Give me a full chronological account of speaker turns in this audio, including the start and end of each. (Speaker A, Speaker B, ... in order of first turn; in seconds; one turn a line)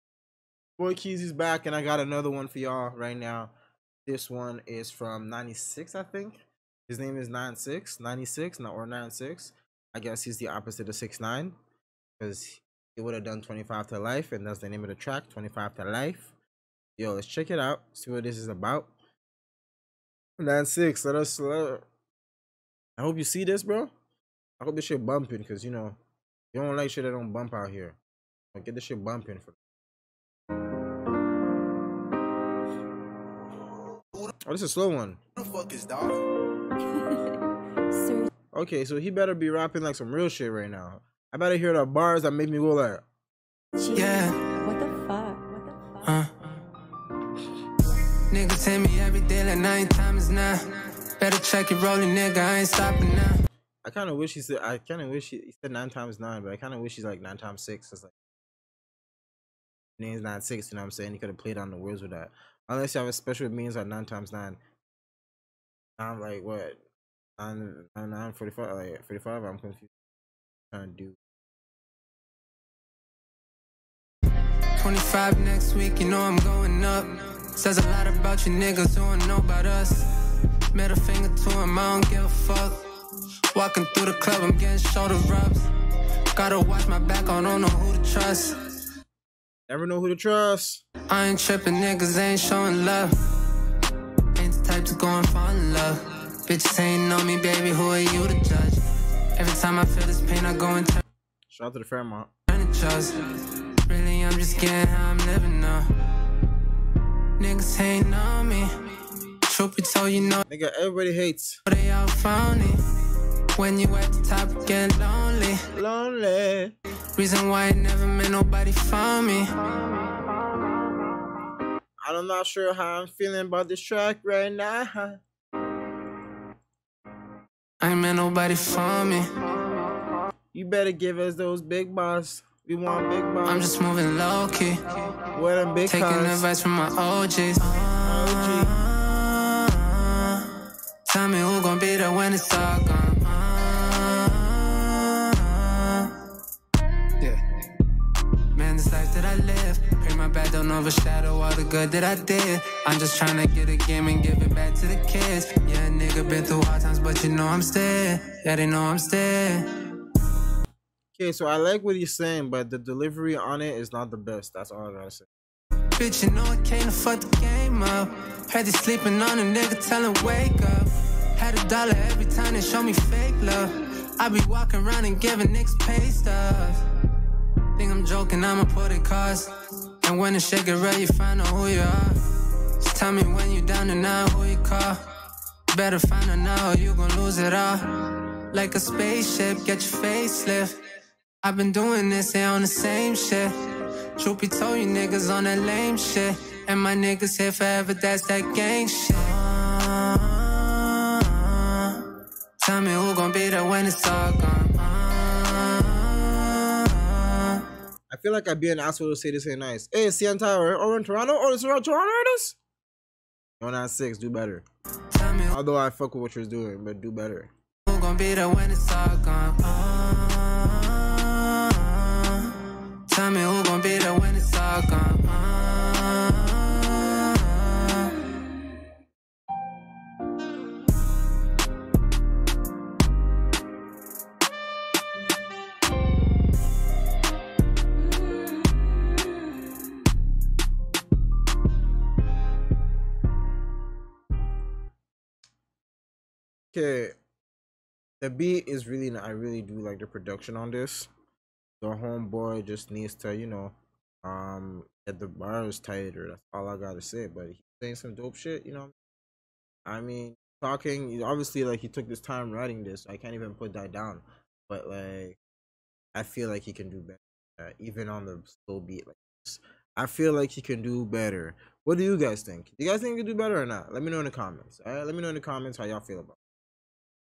Speaker A: 0.8-3.5
Speaker A: 4.0-11.6
Speaker A: 12.2-16.3
Speaker A: 17.0-18.9
Speaker A: 20.4-21.8
Speaker A: 23.0-23.9
Speaker A: 24.6-26.0
Speaker A: 26.5-28.0
Speaker A: 28.5-29.6
Speaker A: 34.5-36.2
Speaker B: 36.8-38.2
Speaker A: 38.5-43.0
Speaker B: 43.8-46.1
Speaker C: 43.9-44.4
Speaker C: 46.0-46.3
Speaker C: 48.3-53.4
Speaker A: 53.8-58.1
Speaker A: 60.0-64.6
Speaker A: 66.0-66.8
Speaker A: 67.4-69.9
Speaker A: 70.7-71.2
Speaker C: 74.8-80.1
Speaker C: 80.7-85.7
Speaker C: 86.3-88.8
Speaker A: 89.7-90.8
Speaker C: 91.1-93.2
Speaker C: 94.3-98.8
Speaker C: 99.3-101.0
Speaker A: 101.5-102.3
Speaker C: 102.5-105.9
Speaker C: 107.4-110.4
Speaker A: 110.5-111.6
Speaker C: 111.7-112.8
Speaker C: 113.5-115.7
Speaker A: 115.7-116.7
Speaker C: 117.1-119.7
Speaker A: 122.0-125.2
Speaker C: 127.8-129.3
Speaker A: 130.5-133.7
Speaker C: 133.4-135.2
Speaker A: 135.3-136.5
Speaker C: 135.8-146.3
Speaker A: 138.0-138.8
Speaker C: 148.5-159.7
Speaker A: 161.2-165.3
Speaker C: 165.9-176.8
Speaker C: 177.7-182.2
Speaker C: 182.8-185.1
Speaker C: 185.7-190.8
Speaker C: 191.4-207.7
Speaker A: 208.1-212.6
Speaker A: 213.6-214.6
Speaker C: 215.1-215.6
Speaker A: 215.5-217.5
Speaker C: 217.8-228.3
Speaker A: 246.7-247.2
Speaker A: 248.2-251.1
Speaker A: 251.8-258.9
Speaker A: 259.9-265.4
Speaker A: 266.1-276.4